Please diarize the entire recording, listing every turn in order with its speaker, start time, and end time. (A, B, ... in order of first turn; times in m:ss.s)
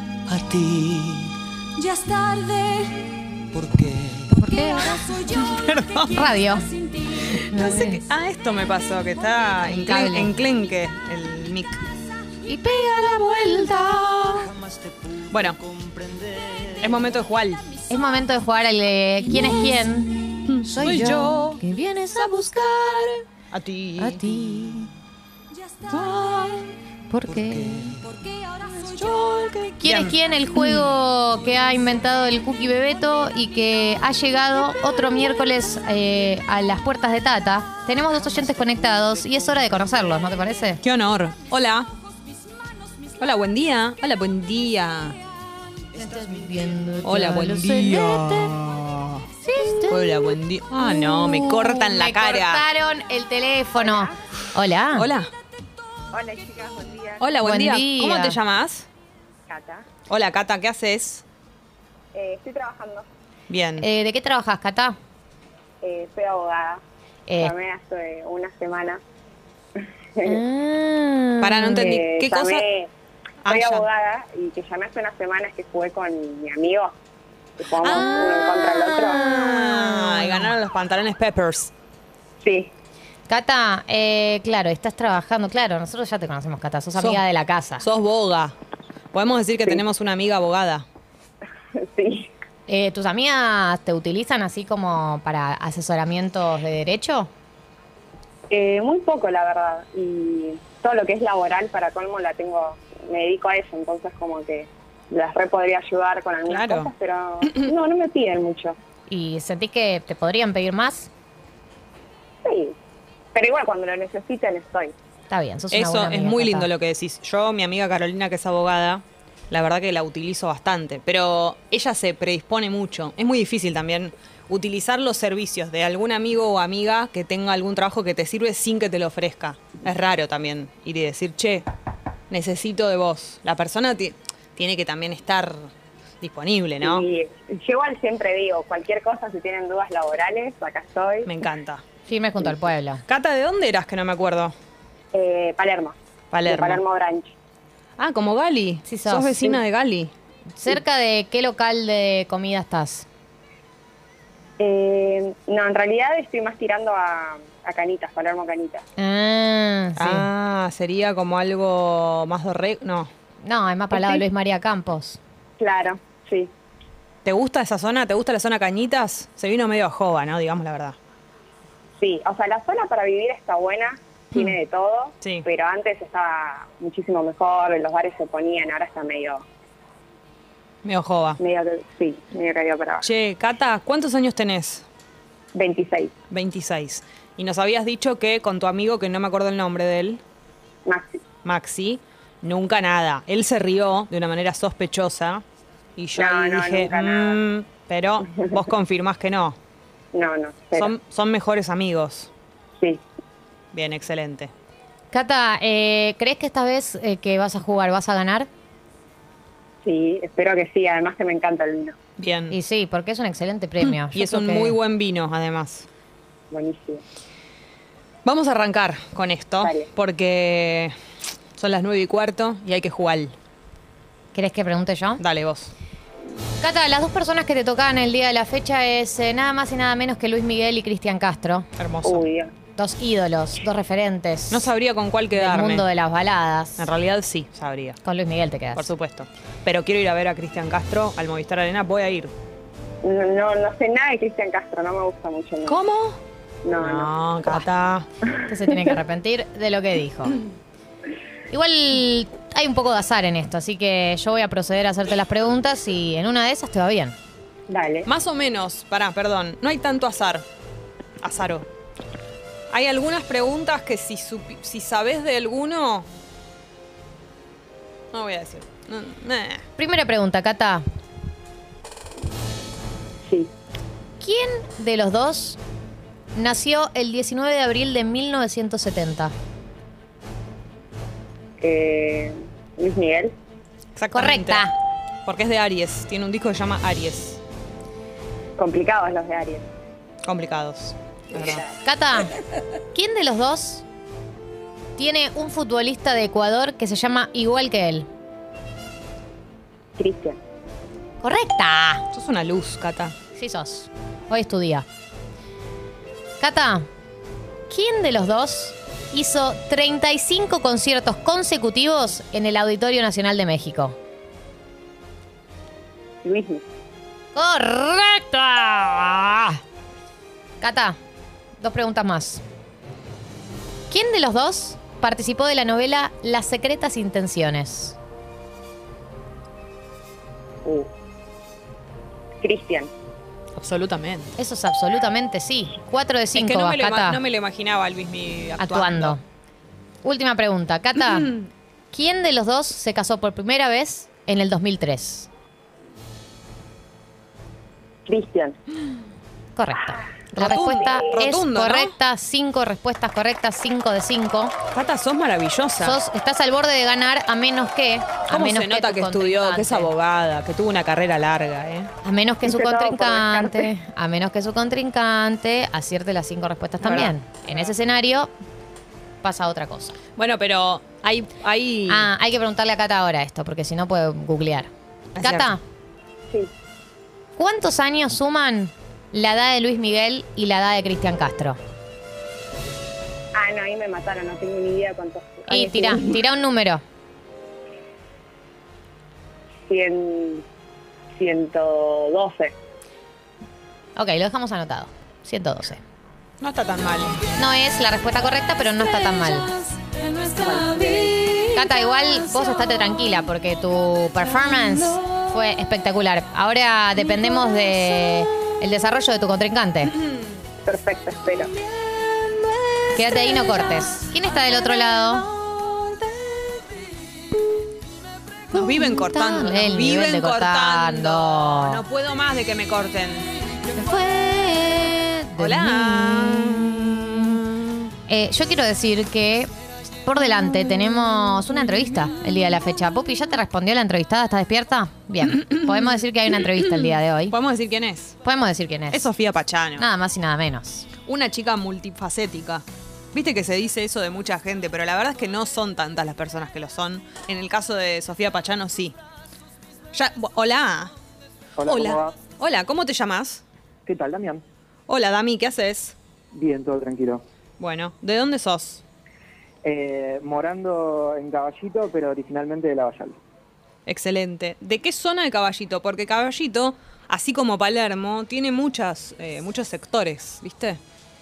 0:00.2-0:01.3 A
0:01.8-0:03.0 B
0:03.5-0:04.3 A
0:04.3-0:05.2 C
0:04.4-0:05.7 B
0:05.4-0:06.2 D
0:06.0-0:06.7 C
0:07.1-0:11.8 D
0:07.5-0:08.0 C
0:09.6-0:10.3 C
0:12.4-0:14.5 C
0:15.3-0:15.6 D
0:15.8-0:16.8 A
0:16.8-0:17.6 D
0:17.9-0:23.2 C
0:20.5-0:21.6 D
0:23.5-0:24.2 D
0:24.0-0:24.9 C
0:25.6-0:26.5 B
0:25.9-0:26.5 D
0:25.9-0:26.6 C
0:27.1-0:28.0 C
0:27.3-0:28.2 A
0:28.3-0:29.0 B
0:28.8-0:30.9 D
0:29.8-0:40.8 C
0:40.8-0:41.9 D
0:43.2-0:45.2 D
0:45.9-0:48.5 C
0:47.0-0:49.2 D
0:49.4-0:50.1 C
0:49.9-0:52.6 D
0:50.8-0:55.1 C
0:53.7-0:54.2 E
0:54.9-0:55.3 D
0:56.1-0:57.3 E
0:57.2-0:58.9 D
0:57.4-0:58.4 C
0:59.5-0:59.9 E
1:00.1-1:01.2 D
1:02.1-1:03.1 E
1:03.5-1:03.8 D
1:03.8-1:05.0 C
1:05.8-1:06.8 E
1:07.3-1:07.5 C
1:07.4-1:09.0 E
1:10.2-1:11.9 C
1:11.4-1:12.6 D
1:11.8-1:12.9 E
1:13.4-1:13.8 D
1:13.4-1:16.9 E
1:17.6-1:19.2 E
1:17.8-1:21.7 D
1:17.8-1:18.4 C
1:19.1-1:20.5 C
1:22.4-1:22.7 E
1:23.3-1:27.8 C
1:26.9-1:27.2 D
1:27.8-1:28.5 D
1:29.1-1:30.8 D
1:31.8-1:32.3 E
1:32.7-1:37.3 C
1:38.5-1:48.8 E
1:46.4-1:46.9 D
1:49.1-1:51.1 C
1:52.4-1:52.7 E
1:53.3-1:54.9 E
1:55.3-1:56.7 C
1:55.7-2:11.7 D
2:12.3-2:17.0 D
2:16.8-2:21.3 E
2:21.2-2:21.8 D
2:22.0-2:23.0 C
2:23.0-2:24.5 D
2:25.1-2:27.3 E
2:26.3-2:26.8 D
2:28.0-2:30.1 D
2:28.8-2:29.5 C
2:30.6-2:33.0 C
2:34.6-2:38.8 E
2:39.0-2:40.3 C
2:40.0-2:43.1 D
2:43.4-2:45.2 C
2:43.9-2:44.2 E
2:45.6-2:46.5 E
2:47.2-2:51.0 D
2:52.0-2:59.4 E
2:55.2-2:55.4 D
3:00.8-3:01.4 D
3:01.4-3:03.1 E
3:03.0-3:04.8 D
3:05.5-3:06.1 E
3:06.3-3:10.2 D
3:10.8-3:11.2 E
3:11.4-3:15.4 D
3:16.0-3:19.6 D
3:16.2-3:17.4 E
3:20.1-3:20.9 E
3:20.8-3:22.3 D
3:22.8-3:23.0 E
3:23.7-3:24.5 D
3:25.1-3:28.5 C
3:29.8-3:32.0 E
3:32.2-3:32.6 D
3:32.5-3:34.8 C
3:33.8-3:35.9 D
3:36.5-3:37.0 E
3:38.2-3:40.9 D
3:39.6-3:39.9 E
3:41.5-3:43.3 D
3:44.3-3:45.2 C
3:45.2-3:45.7 D
3:46.6-3:51.7 C
3:51.8-3:52.3 D
3:52.0-3:52.5 E
3:52.8-3:54.7 C
3:54.5-3:55.9 D
3:55.3-3:56.9 C
3:56.8-3:58.0 D
3:58.0-3:58.9 C
3:58.7-4:02.3 D
4:03.0-4:05.8 E
4:05.6-4:06.2 D
4:06.6-4:07.1 E
4:06.8-4:08.1 D
4:08.5-4:10.4 C
4:11.5-4:17.2 C
4:17.7-4:18.1 E
4:18.0-4:20.4 D
4:21.2-4:21.6 D
4:22.7-4:26.1 D
4:28.1-4:29.6 D
4:29.8-4:30.8 C
4:33.2-4:33.5 E
4:34.2-4:35.6 C
4:36.3-4:39.3 C
4:41.6-4:43.3 E
4:43.9-4:44.6 D
4:44.1-4:44.7 C
4:45.2-4:47.4 D
4:48.6-4:49.6 E
4:50.2-4:51.6 D
4:51.4-4:51.6 E
4:51.8-4:52.3 C
4:52.9-4:53.8 C
4:55.0-4:58.1 C
5:00.0-5:00.4 E
5:01.2-5:02.0 C
5:02.1-5:03.1 D
5:03.3-5:04.8 C
5:06.4-5:06.9 C
5:07.7-5:14.0 C
5:16.2-5:16.6 E
5:17.3-5:19.5 C
5:20.6-5:21.0 C
5:21.6-5:22.4 C
5:23.9-5:28.0 C
5:32.4-5:32.9 E
5:33.6-5:34.3 D
5:34.4-5:37.2 C
5:36.3-5:39.2 D
5:38.6-5:39.2 C
5:40.0-5:41.3 C
5:41.0-5:41.4 D
5:41.9-5:45.3 C
5:48.1-5:48.6 E
5:49.5-5:54.5 C
5:50.3-5:51.9 D
5:54.7-5:56.0 D
5:55.8-5:59.9 C
5:58.3-6:01.9 D
6:02.0-6:08.3 C
6:02.4-6:03.7 E
6:06.8-6:07.1 D
6:09.2-6:10.0 C
6:10.2-6:12.1 D
6:11.9-6:15.6 C
6:15.1-6:15.5 D
6:17.4-6:21.6 C
6:23.3-6:26.2 E
6:25.5-6:26.8 C
6:29.7-6:30.4 E
6:31.2-6:32.5 E
6:34.0-6:35.8 C
6:36.4-6:37.2 D
6:37.4-6:39.5 C
6:39.2-6:42.6 D
6:40.6-6:41.1 E
6:41.5-6:50.0 C
6:44.4-6:45.2 D
6:50.6-6:51.5 E
6:51.9-6:53.9 D
6:52.9-6:55.2 C
6:55.1-6:56.7 D
6:58.5-7:03.3 D
6:58.5-7:01.8 C
7:03.7-7:06.6 C
7:05.4-7:07.5 D
7:08.1-7:09.5 C
7:10.0-7:17.3 C
7:15.5-7:18.2 D
7:18.2-7:19.0 C
7:18.9-7:19.8 D
7:19.8-7:20.9 C
7:21.0-7:29.0 D
7:29.9-7:30.9 D
7:31.6-7:32.2 F
7:31.7-7:33.4 D
7:33.8-7:34.4 F
7:34.9-7:35.9 D
7:36.3-7:37.2 F
7:37.6-7:38.8 D
7:39.6-7:43.2 F
7:43.8-7:50.8 D